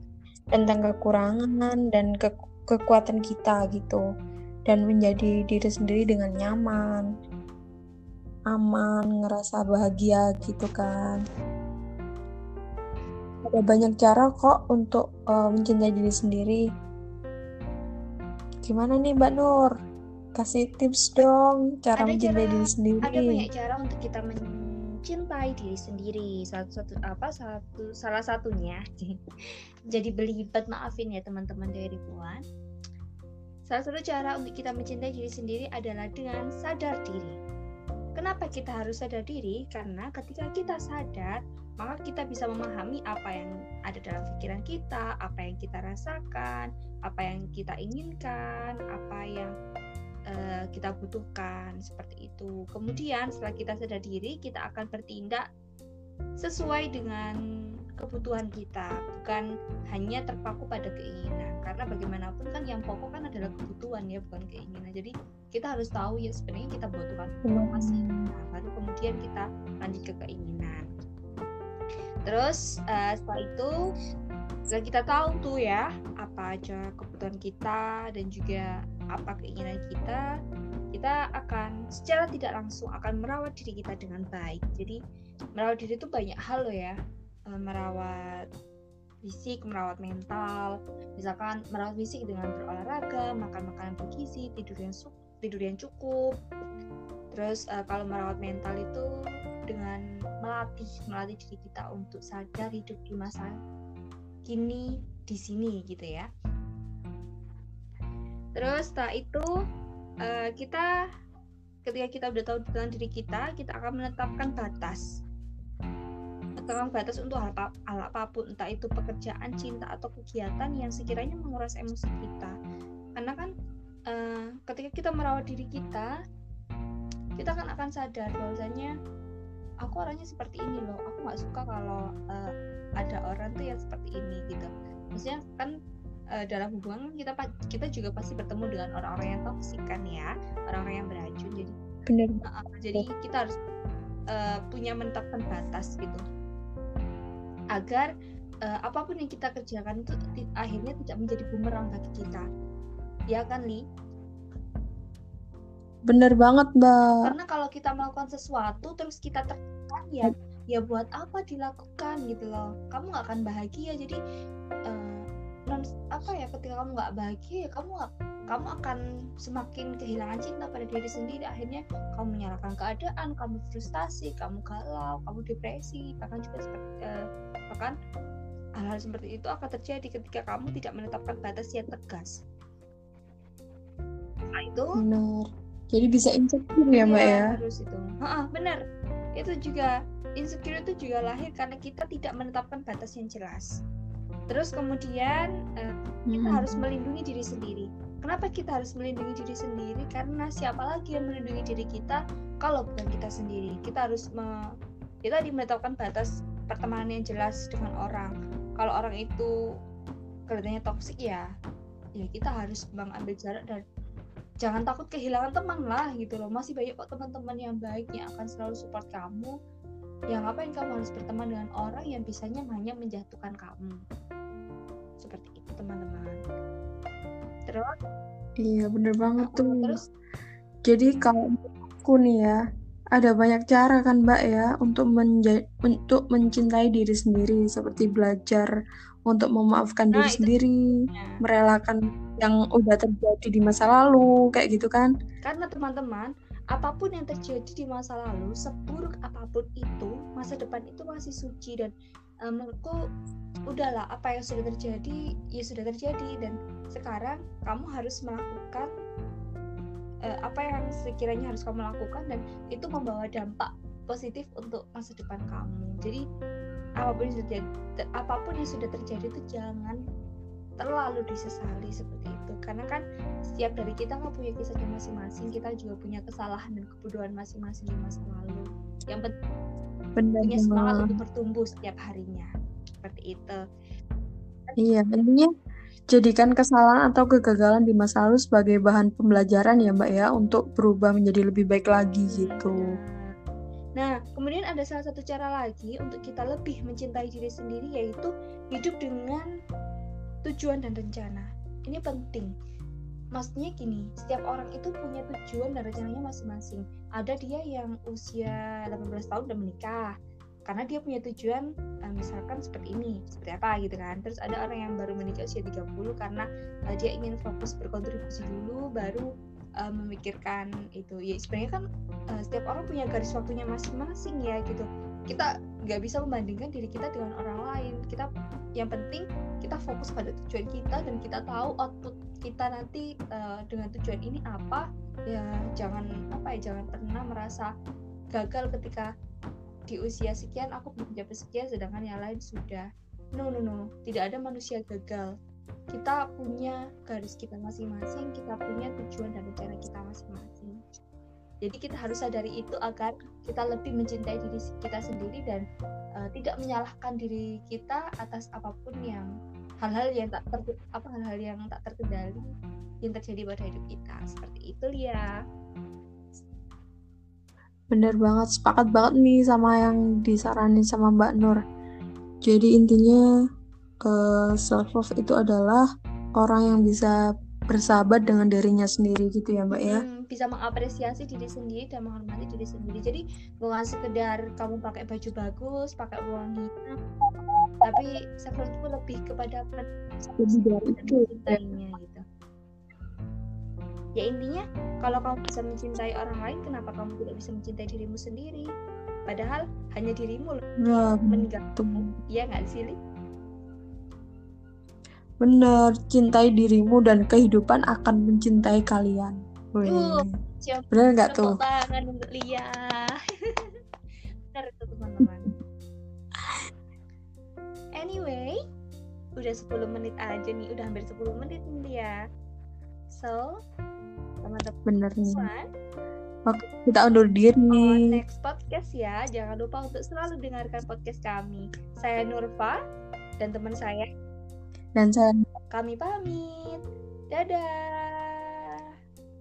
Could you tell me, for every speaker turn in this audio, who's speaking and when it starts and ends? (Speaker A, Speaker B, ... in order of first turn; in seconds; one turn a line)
Speaker A: 0.6-4.0
Speaker A: 4.7-7.0
Speaker A: 8.5-11.2
Speaker A: 13.5-16.6
Speaker A: 18.6-19.7
Speaker A: 20.4-23.4
Speaker B: 22.0-24.4
Speaker B: 25.1-29.1
Speaker B: 29.9-32.4
Speaker B: 33.7-37.4
Speaker B: 38.2-49.5
Speaker B: 50.3-55.4
Speaker B: 56.4-57.4
Speaker B: 58.0-70.8
Speaker A: 67.5-68.3
Speaker B: 72.3-73.7
Speaker B: 74.7-80.2
Speaker B: 80.9-85.0
Speaker B: 85.6-86.9
Speaker B: 87.5-88.4
Speaker B: 89.2-96.3
Speaker B: 97.3-99.0
Speaker B: 99.7-103.5
Speaker B: 104.5-106.3
Speaker B: 108.6-109.5
Speaker B: 110.2-110.8
Speaker B: 111.8-115.0
Speaker B: 116.6-122.5
Speaker B: 123.2-123.5
Speaker B: 124.1-126.1
Speaker B: 127.4-128.9
Speaker B: 129.8-135.7
Speaker B: 136.4-141.7
Speaker A: 142.1-142.4
Speaker B: 142.4-143.5
Speaker B: 144.3-146.2
Speaker B: 147.8-148.1
Speaker B: 148.7-152.4
Speaker B: 153.3-153.8
Speaker A: 156.1-157.0
Speaker B: 157.2-164.2
Speaker B: 164.9-177.9
Speaker B: 178.8-182.4
Speaker B: 184.6-185.0
Speaker A: 185.0-187.5
Speaker B: 187.0-188.8
Speaker B: 189.4-193.7
Speaker B: 194.5-204.5
Speaker A: 196.3-196.8
Speaker B: 205.2-209.5
Speaker B: 210.5-211.4
Speaker B: 212.2-213.8
Speaker B: 214.6-219.5
Speaker B: 220.3-224.0
Speaker B: 225.2-226.4
Speaker A: 228.6-229.9
Speaker B: 229.4-230.0
Speaker A: 230.9-232.6
Speaker A: 233.2-238.7
Speaker A: 239.3-240.8
Speaker B: 240.1-240.5
Speaker B: 241.1-241.4
Speaker A: 241.4-245.1
Speaker B: 245.4-251.9
Speaker B: 252.4-252.9
Speaker B: 253.7-258.9
Speaker B: 260.3-266.2
Speaker B: 267.0-267.6
Speaker B: 268.2-270.0
Speaker B: 270.8-273.0
Speaker B: 273.5-279.3
Speaker A: 280.2-281.1
Speaker B: 280.4-282.5
Speaker B: 283.0-283.6
Speaker A: 284.8-285.5
Speaker A: 286.1-292.9
Speaker B: 292.3-293.3
Speaker B: 294.0-299.5
Speaker B: 300.5-302.5
Speaker B: 303.4-310.1
Speaker B: 310.7-319.2
Speaker B: 319.8-321.8
Speaker B: 322.4-328.3
Speaker B: 328.8-337.7
Speaker B: 338.3-339.1
Speaker B: 339.9-342.9
Speaker B: 343.4-345.3
Speaker B: 345.9-350.8
Speaker B: 351.6-355.6
Speaker B: 356.2-359.3
Speaker B: 359.8-362.5
Speaker B: 363.1-365.3
Speaker A: 367.9-371.6
Speaker A: 372.5-373.2
Speaker A: 374.1-375.8
Speaker A: 376.4-377.1
Speaker A: 377.7-380.0
Speaker B: 379.8-386.9
Speaker B: 387.9-392.2
Speaker A: 390.4-391.6
Speaker B: 394.2-398.7
Speaker B: 399.3-402.9
Speaker A: 400.9-402.1
Speaker A: 405.4-410.3
Speaker B: 409.8-413.7
Speaker A: 410.9-411.6
Speaker B: 414.5-415.5
Speaker B: 418.0-418.5
Speaker B: 419.4-422.2
Speaker B: 423.1-423.5
Speaker B: 424.4-425.6
Speaker A: 424.9-425.4
Speaker A: 426.5-428.0
Speaker B: 427.7-432.8
Speaker B: 433.4-434.1
Speaker A: 435.0-435.3
Speaker B: 435.7-436.8
Speaker B: 437.3-438.8